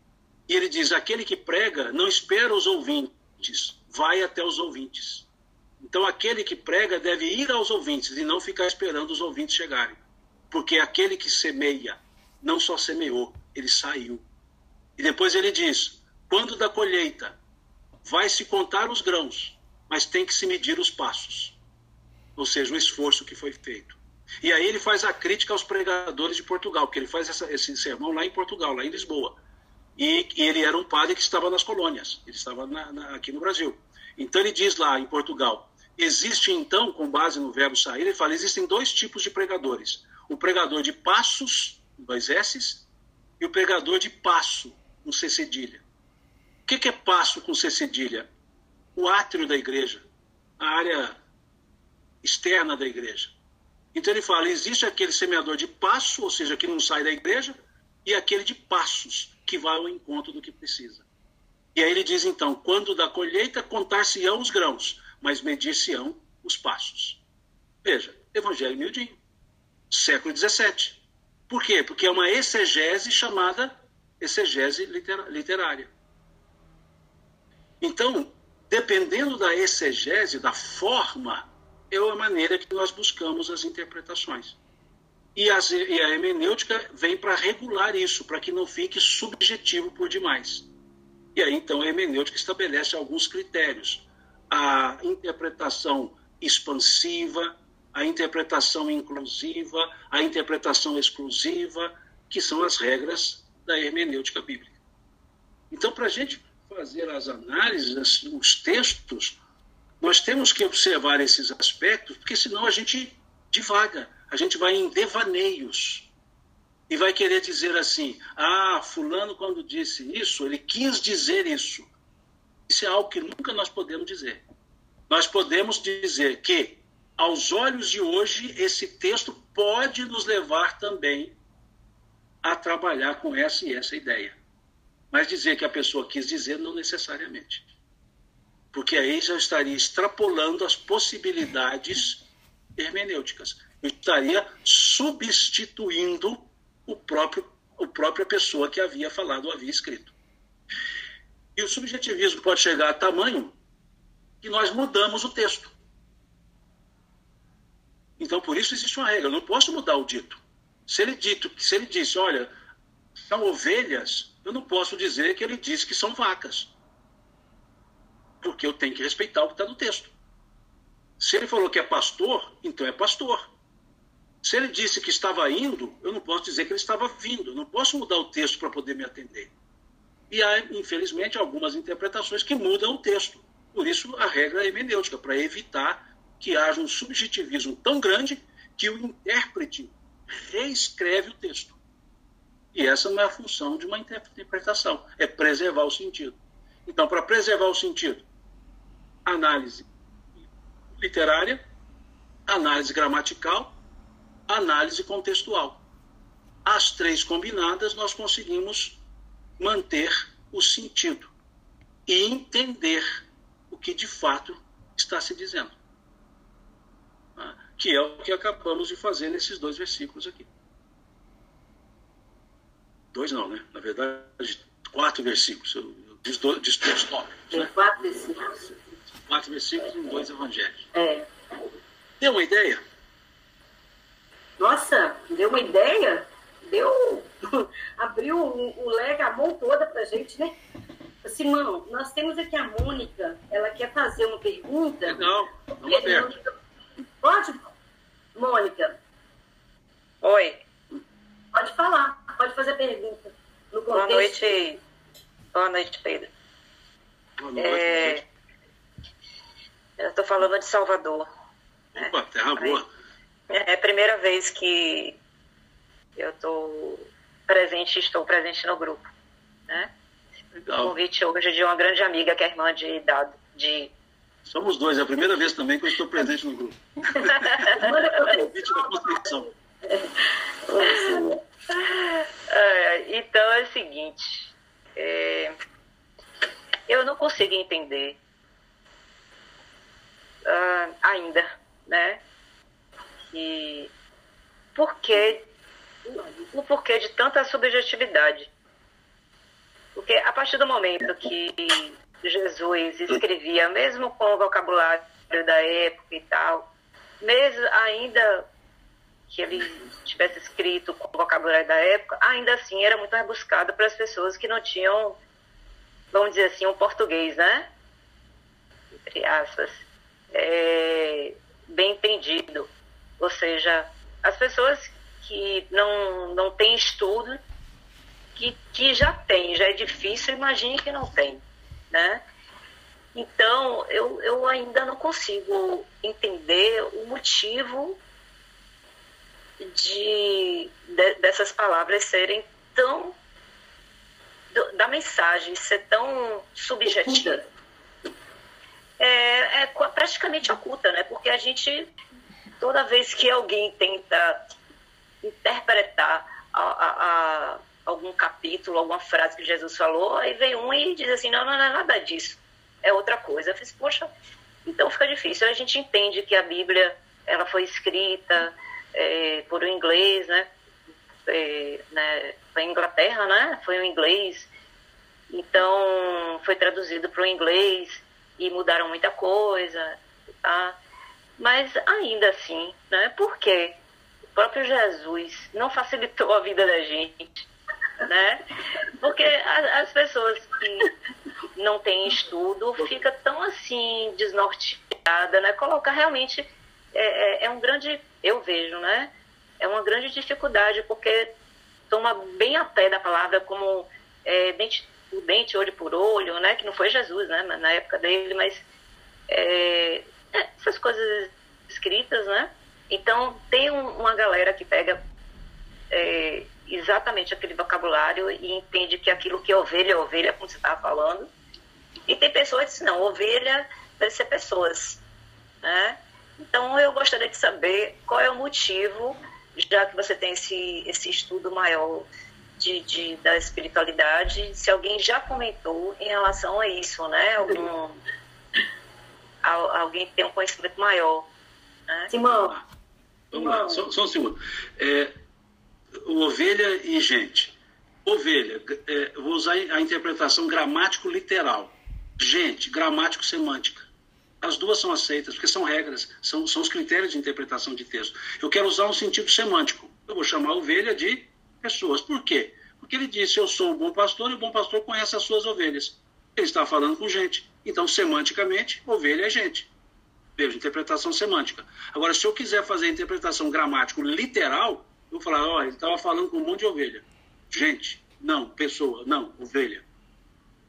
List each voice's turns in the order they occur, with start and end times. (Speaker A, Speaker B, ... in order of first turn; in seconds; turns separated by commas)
Speaker A: 0.5-5.3, Speaker A: 5.8-14.2, Speaker A: 15.0-17.4, Speaker A: 18.0-21.6, Speaker A: 22.4-29.4, Speaker A: 30.0-42.8, Speaker A: 43.4-45.8, Speaker A: 46.6-48.3, Speaker A: 49.0-50.0, Speaker A: 50.6-51.2, Speaker A: 52.2-53.3, Speaker A: 53.9-57.5, Speaker A: 58.0-61.0, Speaker A: 61.7-67.2, Speaker A: 67.8-69.2, Speaker A: 69.9-75.9, Speaker A: 77.8-84.6, Speaker A: 85.3-90.7, Speaker A: 91.3-104.7, Speaker A: 105.7-109.4, Speaker A: 110.0-116.1, Speaker A: 116.9-121.9, Speaker A: 122.7-124.4, Speaker A: 125.1-131.3, Speaker A: 132.4-134.4, Speaker A: 135.1-137.6, Speaker A: 138.7-142.2, Speaker A: 142.8-150.1, Speaker A: 151.6-153.5, Speaker A: 154.4-155.7, Speaker A: 158.2-162.5, Speaker A: 163.2-166.7, Speaker A: 168.4-170.1, Speaker A: 171.2-173.5, Speaker A: 174.4-179.5, Speaker A: 180.3-191.8, Speaker A: 192.7-198.2, Speaker A: 199.2-199.8, Speaker A: 200.9-201.6, Speaker A: 202.5-203.8, Speaker A: 204.5-205.8, Speaker A: 206.6-209.0, Speaker A: 209.6-211.3, Speaker A: 212.1-215.8, Speaker A: 217.4-220.5, Speaker A: 223.1-227.7, Speaker B: 227.5-228.7, Speaker A: 229.2-230.9, Speaker B: 230.9-231.3, Speaker A: 232.2-232.8, Speaker B: 234.6-240.6, Speaker B: 241.2-246.5, Speaker A: 245.1-246.3, Speaker B: 247.2-247.7, Speaker B: 248.3-249.0, Speaker C: 250.2-250.6, Speaker B: 251.5-254.6, Speaker C: 253.9-254.8, Speaker C: 255.5-256.3, Speaker A: 257.4-258.2, Speaker C: 257.6-258.2, Speaker C: 260.0-261.3, Speaker A: 261.9-262.9, Speaker C: 261.9-262.8, Speaker C: 263.5-265.2, Speaker C: 266.1-269.1, Speaker A: 270.6-270.9, Speaker C: 270.8-273.9, Speaker A: 274.4-279.5, Speaker B: 277.2-281.4, Speaker C: 277.6-277.9, Speaker C: 280.8-285.6, Speaker C: 286.9-288.2, Speaker C: 290.4-292.2, Speaker C: 293.3-293.9, Speaker C: 294.8-295.4, Speaker C: 296.1-298.5, Speaker C: 299.9-306.7, Speaker C: 307.2-308.5, Speaker C: 309.3-315.2, Speaker C: 316.1-317.7, Speaker C: 319.1-327.4, Speaker C: 328.4-332.2, Speaker C: 333.1-338.0, Speaker C: 339.6-343.1, Speaker C: 344.5-347.4, Speaker B: 346.9-347.5, Speaker C: 349.0-351.9, Speaker C: 352.6-354.4, Speaker C: 355.2-364.1, Speaker C: 364.6-370.5, Speaker C: 371.2-374.5, Speaker C: 375.3-380.8, Speaker C: 381.4-383.8, Speaker C: 384.3-387.4, Speaker C: 388.0-390.9, Speaker C: 391.5-401.3, Speaker C: 401.9-408.6, Speaker C: 409.3-415.0, Speaker C: 415.9-421.3, Speaker C: 422.1-425.0, Speaker C: 425.6-438.0, Speaker C: 439.4-441.3, Speaker B: 442.1-442.5, Speaker A: 443.3-445.1, Speaker B: 443.3-443.8, Speaker A: 446.0-453.9, Speaker A: 454.4-469.7, Speaker A: 470.4-479.8